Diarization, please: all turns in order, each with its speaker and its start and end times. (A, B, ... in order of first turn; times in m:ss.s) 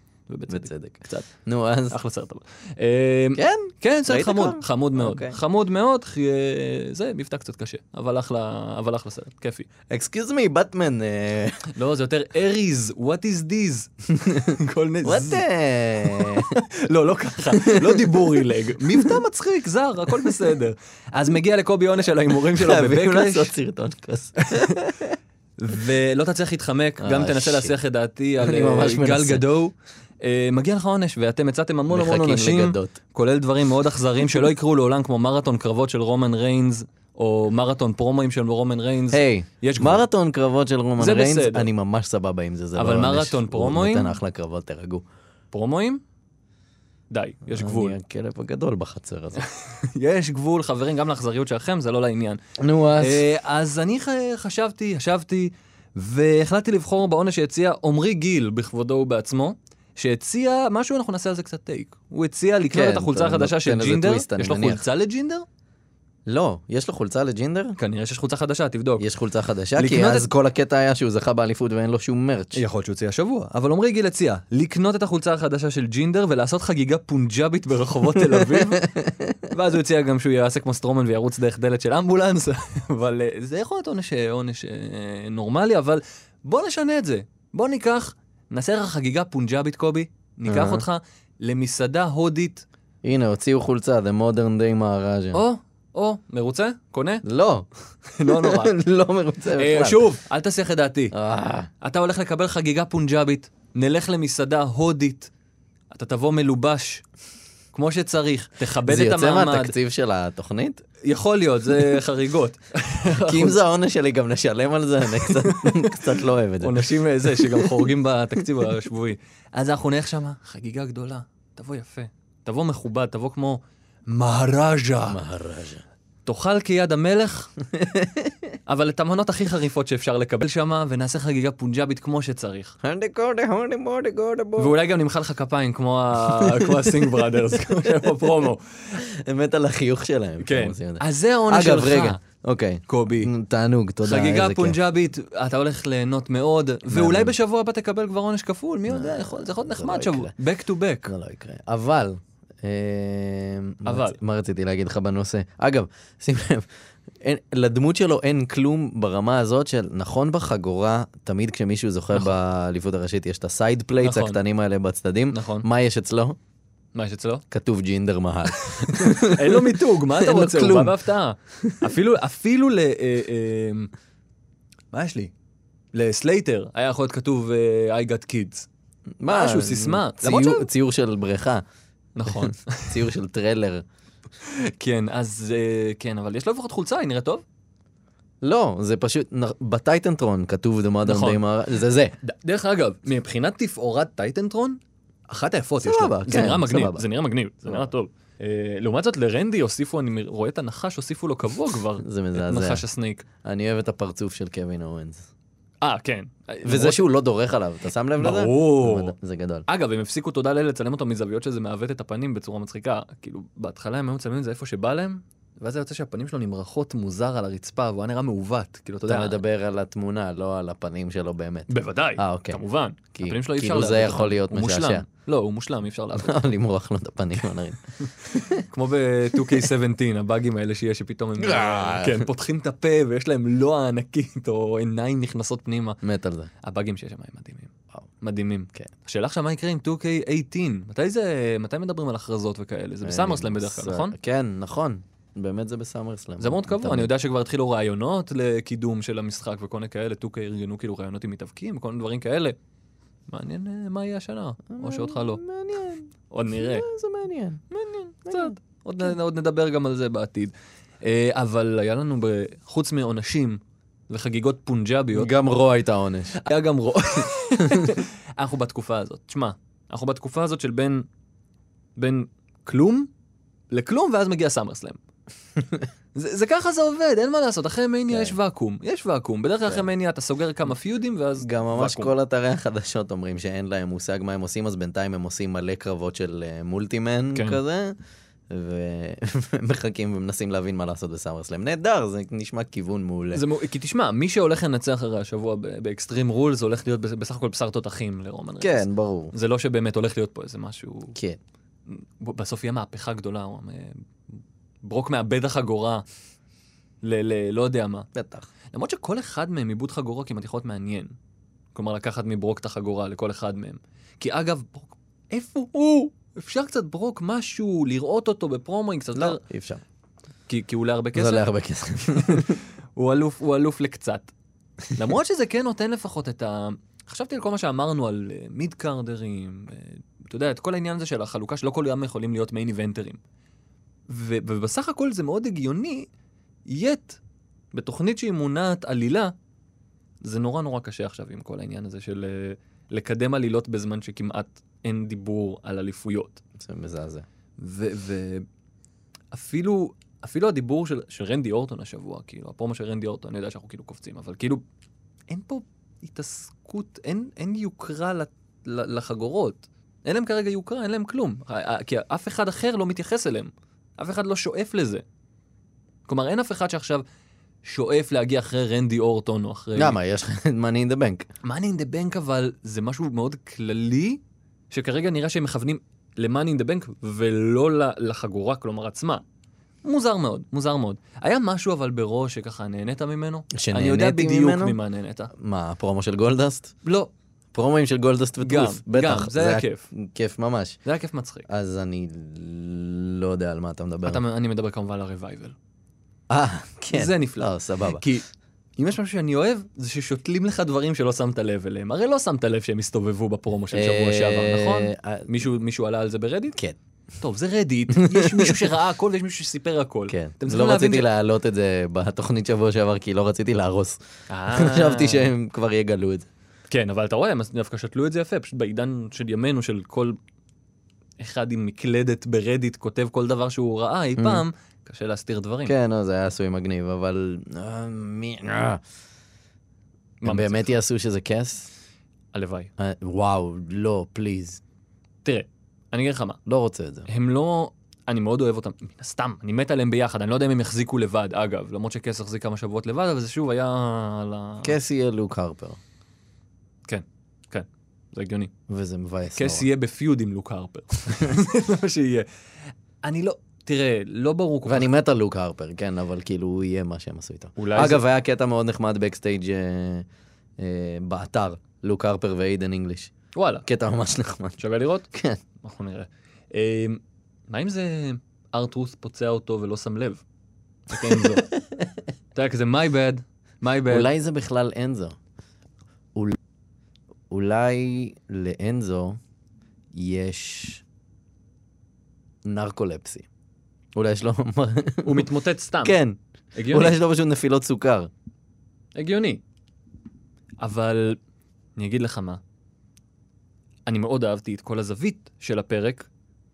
0:00.3-0:01.3 A
0:00.5-0:02.0 B
0:01.9-0:09.7 A
0:03.4-0:05.4 B
0:09.9-0:11.7 B
0:11.7-0:15.4 A
0:14.1-0:16.6 B
0:16.0-0:23.5 A
0:17.5-0:19.2 B
0:20.1-0:20.6 B
0:22.5-0:25.2 B
0:24.4-0:24.8 A
0:25.6-0:40.0 A
0:27.0-0:27.8 B
0:28.4-0:29.4 B
0:31.9-0:33.0 B
0:39.1-0:45.0 B
0:41.0-0:41.7 A
0:42.8-0:44.2 A
0:45.5-0:46.0 A
0:47.1-0:48.0 A
0:47.5-0:49.4 B
0:49.4-0:52.4 A
0:52.6-0:53.2 B
0:52.9-1:05.5 A
1:02.7-1:04.8 B
1:06.3-1:07.8 B
1:07.8-1:09.1 A
1:09.0-1:12.6 B
1:09.8-1:10.3 A
1:12.5-1:18.9 A
1:18.3-1:19.4 B
1:19.5-1:32.7 A
1:30.5-1:30.8 B
1:33.0-1:35.4 B
1:35.3-1:37.2 A
1:37.2-1:37.7 B
1:38.1-1:38.8 A
1:38.2-1:40.0 B
1:39.6-1:41.2 A
1:41.1-1:41.7 B
1:41.8-1:45.3 A
1:45.9-1:47.0 A
1:47.7-1:49.7 A
1:48.8-1:50.8 B
1:51.0-1:53.6 A
1:53.1-1:57.9 B
1:55.2-1:56.0 A
1:56.6-2:05.2 A
2:05.0-2:05.8 B
2:06.2-2:07.5 A
2:07.7-2:08.5 B
2:08.7-2:12.8 A
2:12.8-2:14.8 B
2:14.6-2:19.0 A
2:16.3-2:18.3 B
2:19.0-2:24.8 B
2:20.4-2:22.2 A
2:22.9-2:23.3 A
2:24.0-2:31.1 A
2:26.9-2:27.3 B
2:28.9-2:30.3 B
2:31.1-2:36.7 B
2:33.8-2:34.2 A
2:37.2-2:46.4 B
2:44.0-2:44.4 A
2:45.3-2:45.7 A
2:47.0-2:47.4 A
2:47.5-2:51.0 B
2:48.5-2:53.9 A
2:51.5-2:51.9 B
2:54.9-2:55.3 A
2:55.9-2:58.7 A
2:59.2-3:01.6 B
2:59.3-3:00.7 A
3:02.2-3:03.0 A
3:02.3-3:03.8 B
3:04.4-3:07.4 A
3:08.4-3:12.2 B
3:11.0-3:11.4 A
3:12.2-3:23.3 A
3:15.8-3:17.0 B
3:22.0-3:22.8 B
3:23.4-3:25.2 B
3:25.8-3:27.0 A
3:26.6-3:29.7 B
3:28.2-3:29.2 A
3:29.7-3:39.4 A
3:39.0-3:42.6 B
3:41.7-3:46.5 A
3:43.1-3:45.1 B
3:46.1-3:48.6 B
3:48.0-3:56.0 A
3:49.4-3:49.7 B
3:51.4-3:52.3 B
3:56.0-3:56.5 B
3:56.6-4:04.2 A
4:03.0-4:07.1 B
4:06.4-4:12.6 A
4:13.3-4:15.4 A
4:14.7-4:17.6 B
4:16.3-4:16.9 A
4:17.7-4:25.3 A
4:18.3-4:18.5 B
4:25.1-4:26.4 B
4:26.4-4:31.0 A
4:27.6-4:27.9 B
4:32.0-4:33.1 A
4:33.7-4:35.0 A
4:36.1-4:42.1 A
4:38.1-4:38.4 B
4:41.4-4:48.0 B
4:47.3-4:47.6 A
4:48.5-4:53.4 B
4:53.3-5:01.2 A
4:58.6-4:59.3 B
5:01.9-5:06.0 A
5:07.0-5:08.1 A
5:08.1-5:08.5 B
5:08.7-5:11.1 A
5:11.8-5:19.4 A
5:19.1-5:19.8 B
5:20.5-5:21.4 A
5:21.1-5:22.6 B
5:22.1-5:24.3 A
5:24.9-5:33.2 A
5:34.1-5:36.1 A
5:36.7-5:37.2 A
5:37.7-5:39.3 A
5:40.2-5:46.4 A
5:46.6-5:47.2 B
5:47.6-5:48.5 A
5:49.3-5:54.6 A
5:55.3-6:05.0 A
6:06.1-6:07.0 A
6:07.6-6:10.0 A
6:09.8-6:11.3 B
6:11.4-6:19.2 A
6:19.8-6:25.3 A
6:23.5-6:24.8 B
6:25.3-6:26.7 B
6:26.8-6:27.1 A
6:27.5-6:30.8 B
6:28.4-6:29.9 A
6:30.8-6:31.5 A
6:31.5-6:34.2 B
6:34.0-6:35.6 A
6:36.3-6:38.0 B
6:36.9-6:46.6 A
6:43.7-6:45.3 B
6:47.2-6:51.1 A
6:47.9-6:48.7 B
6:50.1-6:54.0 B
6:54.3-6:55.3 A
6:54.5-6:56.3 B
6:56.7-7:00.2 A
7:01.2-7:05.8 A
7:04.2-7:04.4 B
7:05.7-7:08.8 B
7:10.2-7:10.8 A
7:10.2-7:11.7 B
7:12.3-7:12.7 A
7:12.8-7:14.6 B
7:15.2-7:16.4 A
7:16.5-7:17.1 B
7:17.1-7:24.8 A
7:24.6-7:25.8 B
7:26.9-7:28.5 A
7:28.7-7:29.7 B
7:29.4-7:34.9 A
7:34.6-7:40.1 B
7:37.6-7:38.0 A
7:40.6-7:43.1 B
7:43.4-7:43.6 A
7:43.6-7:44.6 B
7:44.6-7:45.1 A
7:45.1-7:45.4 B
7:45.6-7:50.2 A
7:50.9-7:51.5 A
7:52.4-7:54.1 A
7:53.9-7:55.2 B
7:57.3-7:59.2 B
7:59.9-8:00.8 B
8:02.4-8:03.2 B
8:04.0-8:05.3 B
8:05.0-8:06.0 A
8:05.8-8:08.1 B
8:06.6-8:07.0 A
8:09.0-8:09.4 A
8:10.6-8:11.2 A
8:11.8-8:12.4 A
8:13.9-8:16.1 A